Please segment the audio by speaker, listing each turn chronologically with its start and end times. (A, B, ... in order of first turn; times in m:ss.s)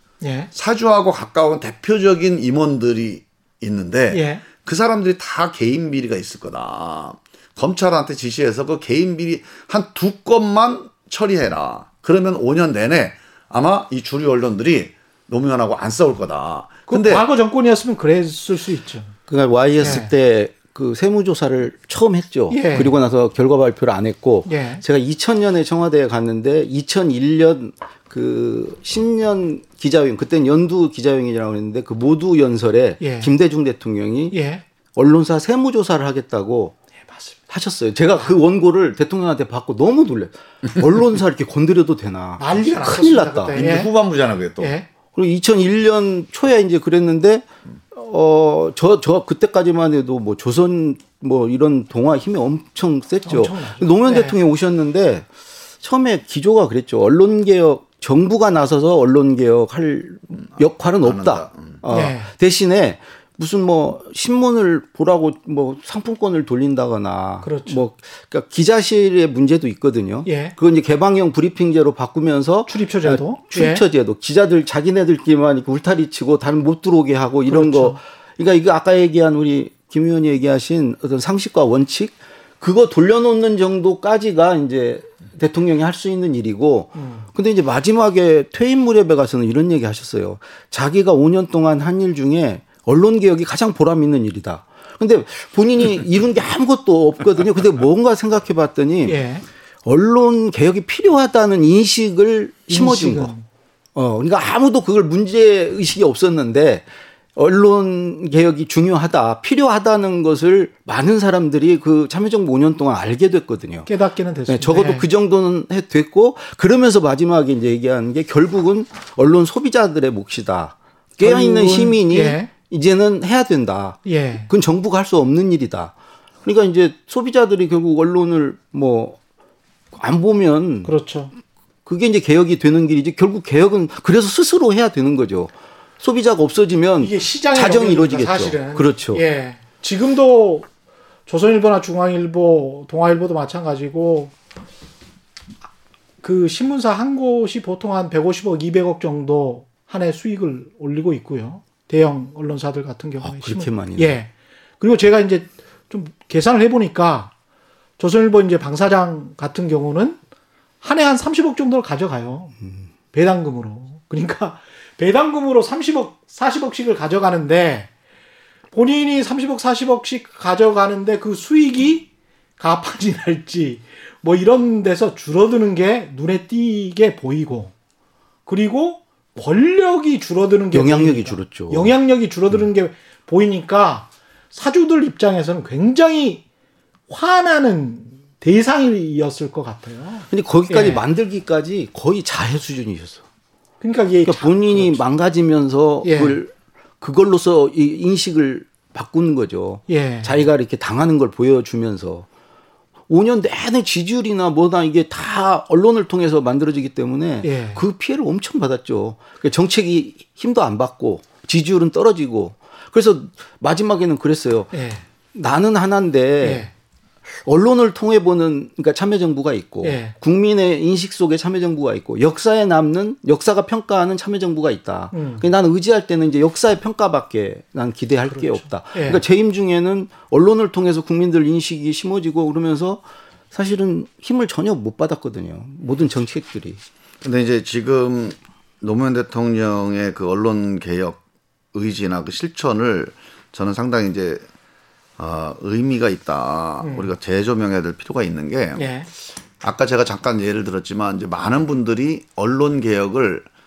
0:00.2-0:00.5 A
0:00.5-0:17.2 B
0:04.1-0:04.4 A
0:16.9-0:19.1 A
0:19.3-0:34.4 C
0:19.8-0:20.1 A
0:22.5-0:22.9 A
0:24.4-0:24.8 A
0:33.0-0:33.3 A
0:34.3-0:34.6 A
0:35.0-0:36.8 C
0:37.5-0:43.6 C
0:42.4-0:43.9 A
0:43.5-0:44.7 B
0:44.6-0:44.8 A
0:45.2-0:55.3 C
0:53.2-0:54.3 A
0:55.8-1:39.2 C
1:01.0-1:01.8 B
1:01.9-1:02.3 A
1:07.4-1:07.8 A
1:10.2-1:10.5 A
1:12.7-1:13.8 A
1:17.5-1:18.0 A
1:27.0-1:27.3 A
1:39.0-1:39.4 A
1:39.8-1:43.3 C
1:42.7-1:43.4 A
1:43.9-1:46.8 C
1:47.4-1:53.9 C
1:53.9-1:55.0 A
1:54.5-2:05.9 C
2:01.2-2:02.5 A
2:04.0-2:04.5 A
2:06.4-2:09.2 C
2:09.9-2:10.9 C
2:10.8-2:11.3 A
2:11.8-2:19.2 C
2:17.0-2:20.7 A
2:21.3-2:24.3 A
2:26.2-2:37.3 A
2:33.2-2:34.2 C
2:38.0-2:40.2 A
2:40.8-2:42.5 A
2:43.1-2:47.9 A
2:48.7-2:57.7 A
2:58.4-3:06.4 A
3:00.7-3:01.9 C
3:07.1-3:11.0 A
3:10.3-3:13.2 C
3:13.8-3:15.0 A
3:14.2-3:22.3 C
3:16.0-3:16.4 A
3:19.9-3:20.3 A
3:23.1-3:34.7 C
3:27.4-3:27.8 A
3:34.7-3:35.0 A
3:35.3-3:36.7 C
3:36.4-3:36.7 A
3:37.4-3:53.0 C
3:39.8-3:40.1 A
3:45.1-3:45.4 A
3:48.3-3:49.2 A
3:53.5-3:56.8 C
3:57.2-4:01.2 B
4:01.7-4:04.4 B
4:05.2-4:08.8 B
4:06.8-4:07.1 A
4:08.8-4:09.1 A
4:09.6-4:13.4 B